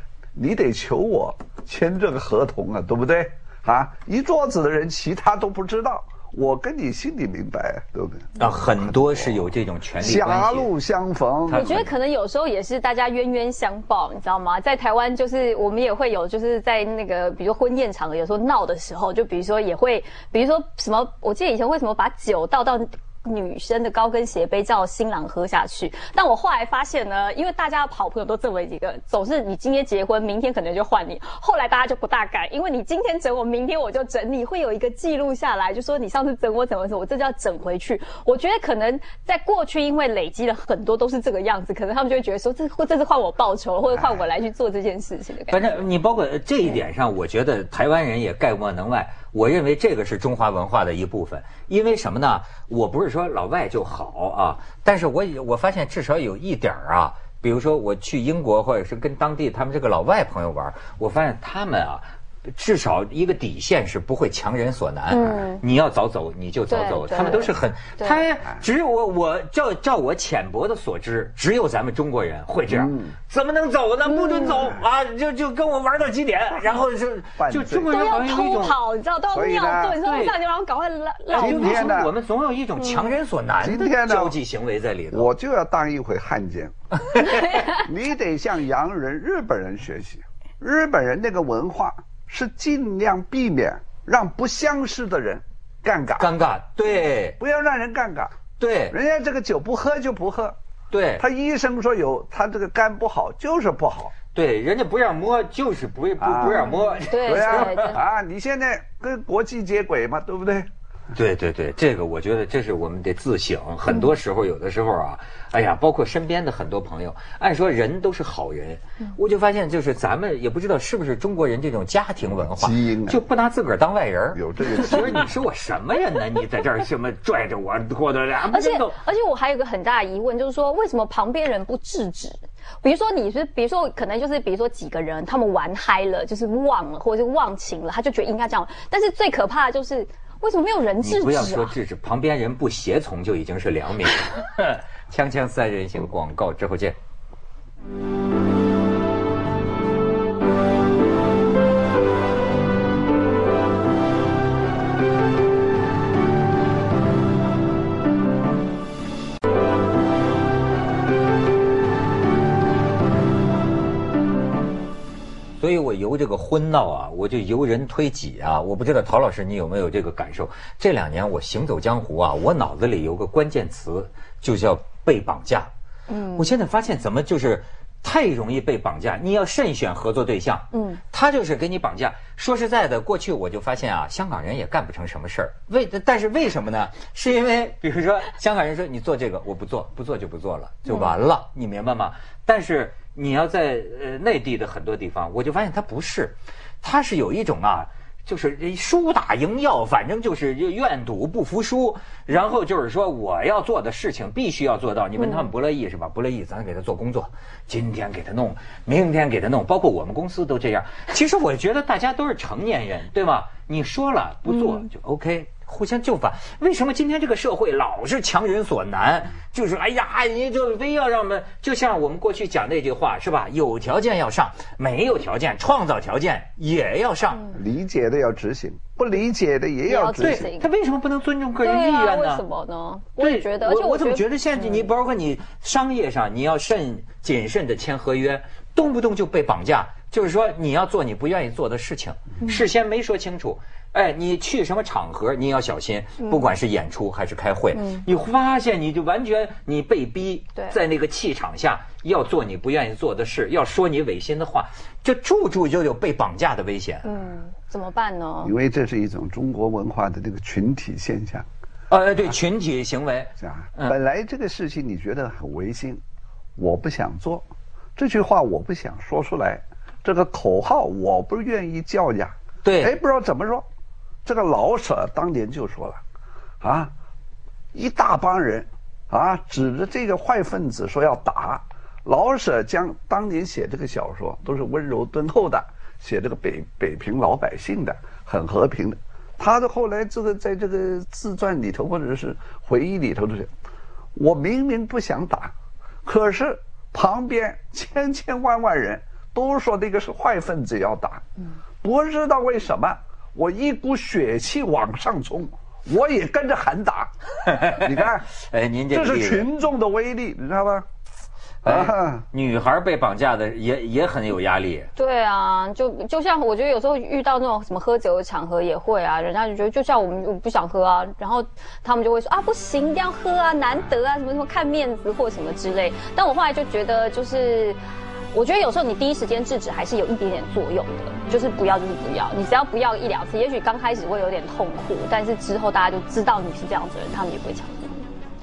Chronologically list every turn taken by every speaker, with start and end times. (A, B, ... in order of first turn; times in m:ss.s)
0:00.4-0:09.5 A
0:08.4-0:10.7 B
0:10.0-0:11.9 A
0:11.5-0:11.9 B
0:11.5-0:45.8 C
0:45.5-1:18.8 B
1:05.1-1:05.6 C
1:06.7-1:08.2 C
1:12.7-1:13.2 A
1:14.1-1:14.7 C
1:17.4-1:18.1 A
1:17.9-1:21.9 C
1:19.3-1:20.0 A
1:20.0-1:20.4 B
1:21.3-1:25.3 B
1:21.4-1:22.1 A
1:22.8-1:23.1 C
1:23.6-1:24.4 A
1:25.1-1:26.8 A
1:27.1-1:27.6 B
1:27.2-1:27.8 C
1:27.7-1:36.3 A
1:36.2-1:37.4 B
1:37.4-1:40.6 A
1:38.6-1:39.0 B
1:40.9-1:41.2 B
1:41.2-1:44.2 A
1:44.3-1:47.9 B
1:46.2-1:50.7 A
1:46.4-1:48.0 C
1:51.1-2:09.0 B
2:02.4-2:03.2 A
2:04.3-2:05.3 A
2:08.5-2:21.8 C
2:21.0-2:27.0 B
2:45.6-2:55.7 B
2:56.1-2:56.5 C
2:56.4-3:47.4 B
3:00.7-3:01.0 C
3:10.9-3:11.1 C
3:25.2-3:25.5 C
3:34.6-3:34.8 C
3:47.5-3:50.5 A
3:49.9-3:50.7 C
3:50.2-3:52.4 B
3:51.6-3:54.9 C
3:53.2-4:17.0 B
4:07.8-4:08.0 C
4:17.0-4:18.5 C
4:18.4-4:21.5 A
4:21.9-4:24.0 B
4:23.4-4:26.0 A
4:26.6-4:33.7 A
4:32.6-4:32.9 B
4:34.2-4:36.0 A
4:36.6-4:36.9 A
4:37.7-4:53.5 A
4:54.2-4:55.5 A
4:56.0-5:01.3 A
5:01.8-5:08.3 A
5:07.5-5:09.5 B
5:08.9-5:10.9 A
5:11.6-5:14.9 B
5:11.6-5:12.2 A
5:15.0-5:27.8 C
5:28.3-5:38.0 C